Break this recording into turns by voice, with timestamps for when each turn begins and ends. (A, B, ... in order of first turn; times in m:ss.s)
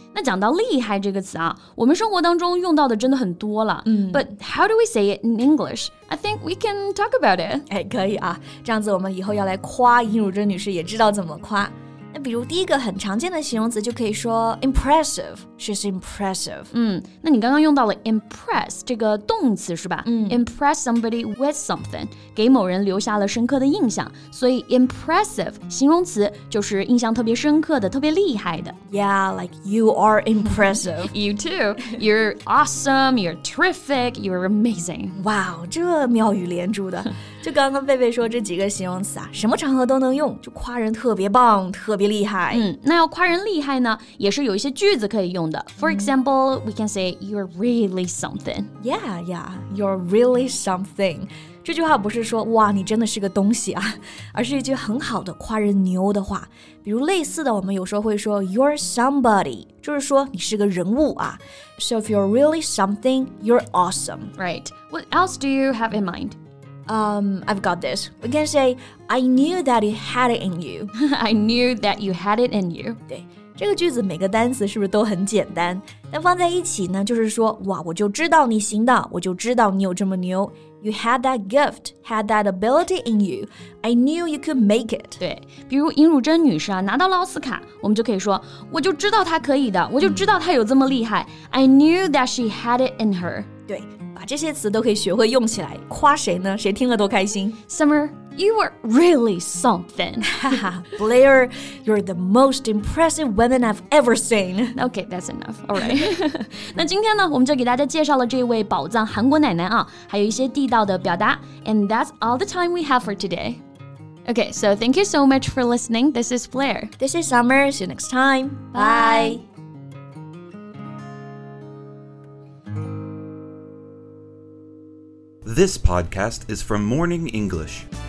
0:00.1-0:07.6 A
0:03.8-0:04.3 B
0:07.7-0:16.7 B
0:16.7-0:28.8 A
0:20.0-0:20.4 B
0:28.9-0:31.1 B
0:31.0-0:35.2 A
0:35.2-0:42.6 B
0:42.5-0:48.7 A
0:45.8-0:46.1 B
0:48.8-1:04.3 B
1:04.4-1:06.4 A
1:06.9-1:10.9 B
1:10.9-1:13.0 A
1:13.1-1:25.2 B
1:25.2-1:33.5 A
1:33.7-1:37.6 B
1:37.7-1:40.6 A
1:40.2-1:44.8 B
1:44.7-1:53.6 A
1:54.2-1:56.9 A
1:57.0-1:59.4 B
1:58.7-1:59.4 A
2:05.4-2:07.8 C